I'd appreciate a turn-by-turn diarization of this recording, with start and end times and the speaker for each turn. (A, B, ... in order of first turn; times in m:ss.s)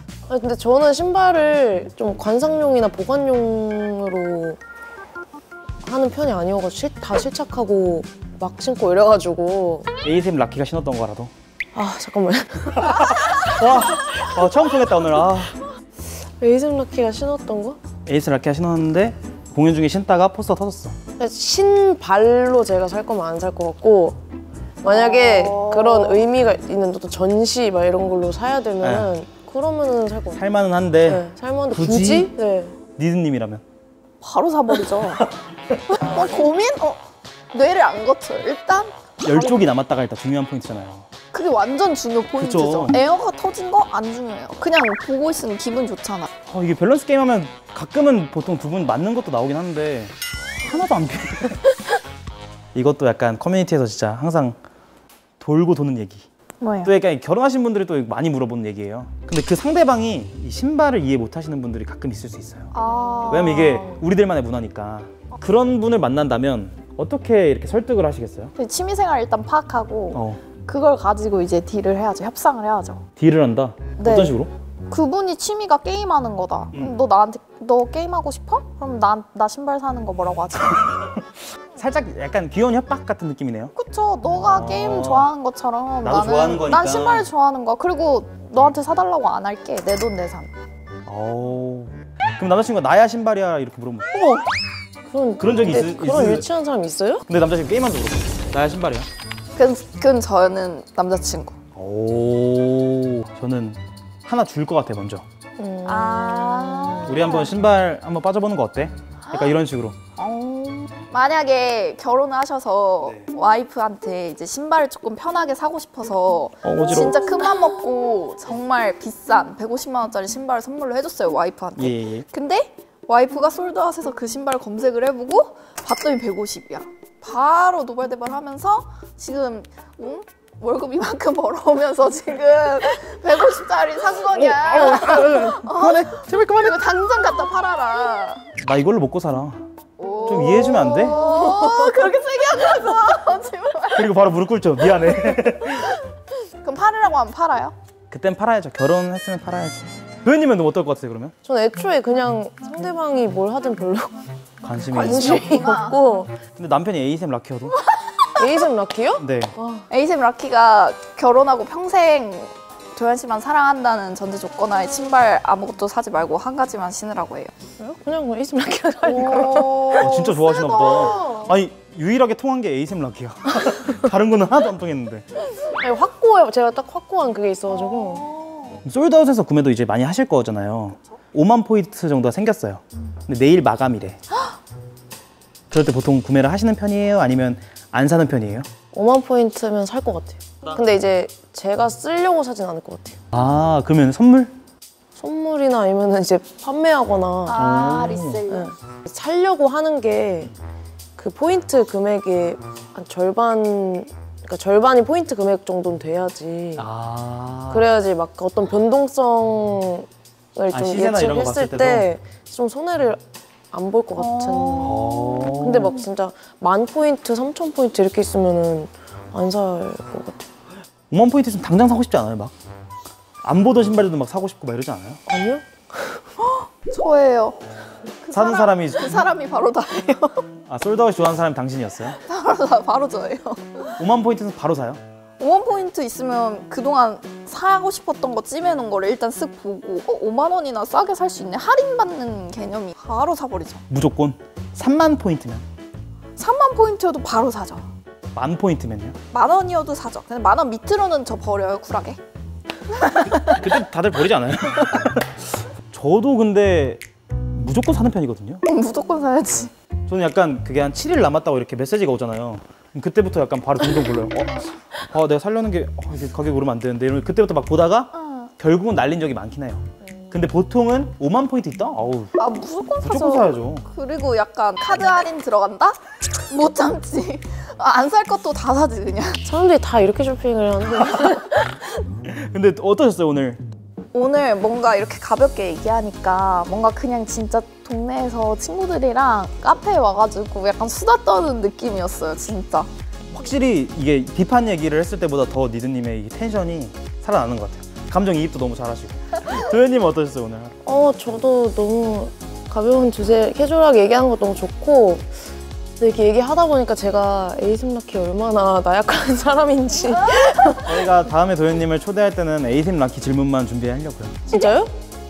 0:00.3-0:04.6 A
0:05.8-0:09.9 A
0:10.0-0:11.3 B
0:11.7-0:13.2 A
0:12.8-0:15.6 B
0:16.4-0:17.8 A
0:18.1-0:21.0 B
0:21.2-0:24.2 A
0:24.8-0:30.4 A
0:24.8-0:26.3 C
0:28.8-0:29.1 B
0:30.3-0:32.3 B
0:31.0-0:32.8 A
0:33.0-0:33.6 B
0:34.2-0:35.2 C
0:35.9-0:39.4 C
0:39.2-0:41.1 B
0:41.3-0:46.3 C
0:42.4-0:43.0 B
0:46.5-0:51.6 B
0:52.8-0:54.6 B
0:55.4-0:56.2 B
0:56.6-0:56.9 C
0:56.8-1:02.7 B
1:02.7-1:03.9 C
1:03.3-1:08.5 B
1:08.6-1:13.0 C
1:10.1-1:10.4 B
1:13.2-1:14.5 B
1:14.0-1:20.9 C
1:20.8-1:21.2 B
1:21.7-1:23.7 B
1:23.7-1:30.5 C
1:24.3-1:25.3 B
1:26.0-1:27.3 B
1:31.1-1:34.4 B
1:35.1-1:37.2 A
1:35.4-1:36.5 B
1:37.3-1:39.1 B
1:39.6-1:41.6 C
1:41.8-1:45.2 B
1:45.6-1:47.3 A
1:45.8-1:47.5 C
1:47.1-1:50.0 B
1:49.2-1:49.6 C
1:50.2-2:18.5 C
1:53.0-1:53.3 B
1:56.6-1:57.2 B
2:01.8-2:02.2 B
2:14.3-2:16.9 B
2:18.6-2:19.6 B
2:20.0-2:24.2 C
2:20.2-2:21.3 B
2:23.9-2:26.0 B
2:24.9-2:26.1 C
2:26.6-2:27.8 C
2:28.1-2:31.3 B
2:31.4-2:34.2 A
2:34.6-2:35.6 B
2:34.9-2:36.4 A
2:34.9-2:36.0 C
2:36.6-2:37.8 B
2:38.4-2:39.9 A
2:39.2-2:39.5 B
2:39.9-2:47.5 C
2:47.8-2:50.3 A
2:49.0-2:51.5 C
2:49.9-2:55.3 B
2:50.9-2:51.4 A
2:55.6-2:58.3 A
2:57.7-2:58.8 C
2:58.8-3:04.2 B
3:05.7-3:08.7 B
3:08.9-3:13.2 A
3:13.3-3:14.5 B
3:15.2-3:17.6 A
3:17.5-3:18.7 C
3:17.6-3:18.4 B
3:18.5-3:20.5 A
3:21.2-3:26.9 A
3:26.8-3:27.9 B
3:27.7-3:33.2 A
3:30.7-3:32.1 B
3:33.7-3:40.5 A
3:34.2-3:35.5 C
3:34.8-3:36.0 B
3:41.1-3:42.5 B
3:43.4-3:45.2 B
3:45.3-3:46.2 A
3:46.4-3:47.6 C
3:48.2-3:50.5 C
3:48.3-3:49.2 B
3:50.7-3:52.2 B
3:52.2-3:54.0 C
3:54.0-3:55.0 B
3:55.4-4:03.8 C
4:03.9-4:05.6 B
4:06.4-4:07.9 C
4:08.4-4:09.2 B
4:09.3-4:12.2 C
4:12.9-4:13.7 C
4:13.5-4:17.0 B
4:17.5-4:18.6 B
4:18.6-4:19.7 C
4:20.1-4:32.4 B
4:28.1-4:28.5 C
4:32.4-4:39.4 C
4:33.0-4:33.8 B
4:39.5-4:41.5 A
4:41.3-4:41.9 C
4:42.3-4:43.6 B
4:44.1-4:52.9 C
4:53.3-5:00.7 B
5:00.8-5:05.5 A
5:06.0-5:11.0 A
5:10.8-5:14.5 B
5:14.5-5:14.9 A